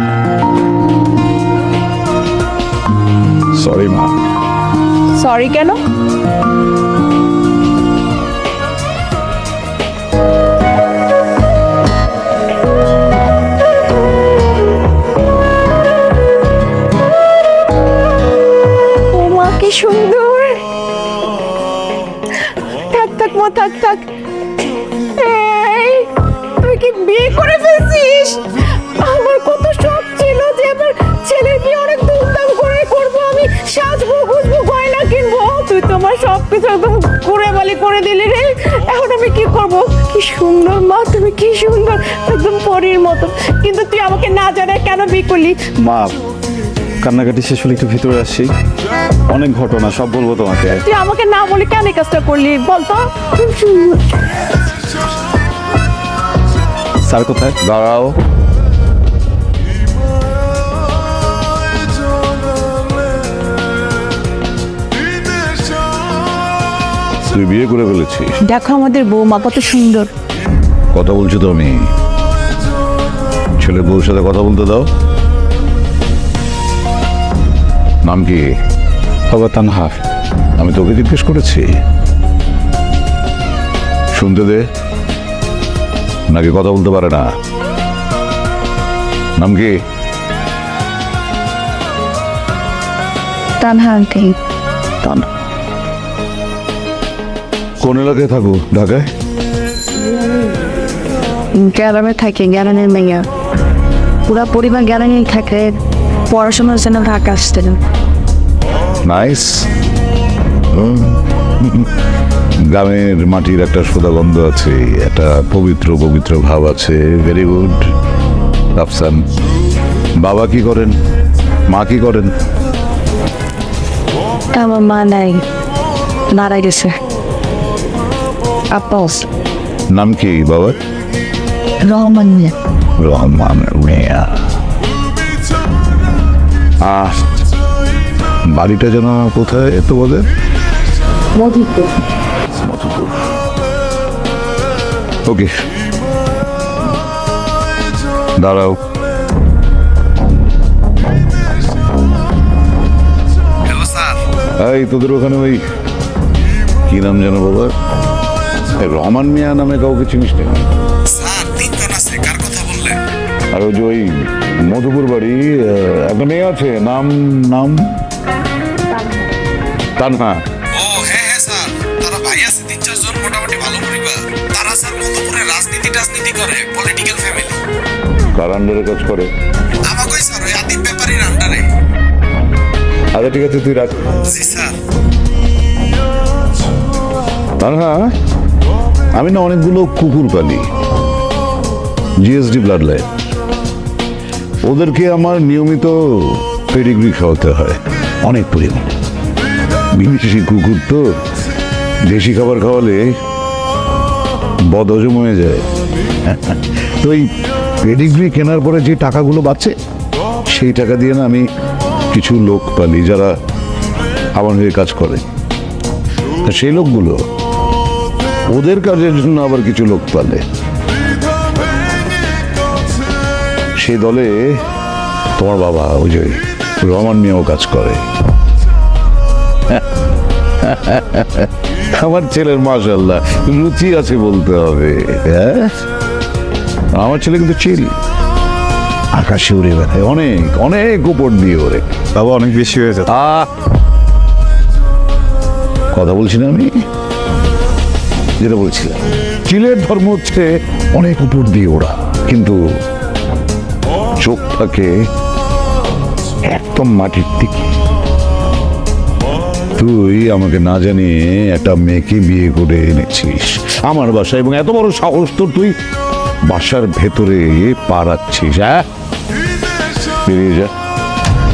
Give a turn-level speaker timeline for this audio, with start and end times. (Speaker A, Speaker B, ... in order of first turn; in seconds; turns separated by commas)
Speaker A: 3.5-4.1, Speaker B: 5.1-5.8, Speaker B: 19.1-20.6, Speaker B: 22.4-24.1, Speaker B: 25.1-45.7, Speaker C: 45.8-46.2, Speaker C: 47.0-48.5, Speaker C: 49.3-50.8, Speaker B: 50.8-54.0, Speaker C: 57.0-57.5, Speaker A: 57.6-58.2, Speaker A: 67.3-68.3, Speaker B: 68.4-70.1, Speaker A: 70.9-71.7, Speaker A: 73.6-74.9, Speaker A: 78.0-78.5, Speaker C: 79.3-80.0, Speaker A: 80.6-81.7, Speaker A: 84.1-84.7, Speaker A: 86.3-87.3, Speaker A: 89.4-89.7, Speaker D: 93.6-94.4, Speaker D: 95.0-95.3, Speaker A: 97.8-99.1, Speaker D: 101.5-103.3, Speaker D: 104.3-107.8, Speaker A: 109.0-109.7, Speaker A: 110.7-111.9, Speaker A: 112.7-117.9, Speaker A: 118.7-119.2, Speaker A: 120.2-121.0, Speaker A: 121.7-122.3, Speaker D: 124.5-125.4, Speaker D: 126.3-127.0, Speaker D: 128.7-129.3, Speaker A: 129.9-130.8, Speaker D: 131.8-132.6, Speaker A: 133.0-134.3, Speaker A: 136.8-137.2, Speaker A: 138.5-140.3, Speaker D: 141.6-141.8, Speaker A: 142.6-143.2, Speaker A: 148.4-148.8, Speaker E: 153.7-154.2, Speaker A: 154.6-155.6, Speaker A: 156.9-157.7, Speaker A: 158.8-160.7, Speaker E: 161.1-163.0, Speaker A: 163.5-168.0, Speaker A: 170.0-170.4, Speaker E: 170.7-177.6, Speaker A: 178.3-179.3, Speaker E: 179.8-181.7, Speaker A: 183.1-184.2, Speaker E: 184.2-184.8, Speaker A: 187.6-188.1, Speaker A: 189.1-190.7, Speaker A: 192.2-193.1, Speaker A: 194.6-198.9, Speaker A: 199.9-201.1, Speaker A: 202.0-203.1, Speaker A: 204.7-205.7, Speaker A: 206.2-207.3, Speaker A: 207.8-209.8, Speaker A: 210.5-211.5, Speaker A: 212.1-213.3, Speaker A: 214.3-215.2, Speaker A: 216.4-217.2, Speaker A: 218.5-220.4, Speaker A: 223.8-224.6, Speaker A: 225.4-228.0, Speaker A: 230.6-235.7, Speaker A: 236.9-237.9, Speaker A: 239.1-242.1, Speaker C: 242.2-243.1, Speaker A: 243.1-243.5, Speaker A: 245.9-246.7, Speaker A: 248.4-252.6, Speaker A: 254.2-254.9, Speaker A: 256.5-257.7, Speaker A: 259.8-265.8, Speaker A: 266.4-268.9, Speaker A: 270.3-270.7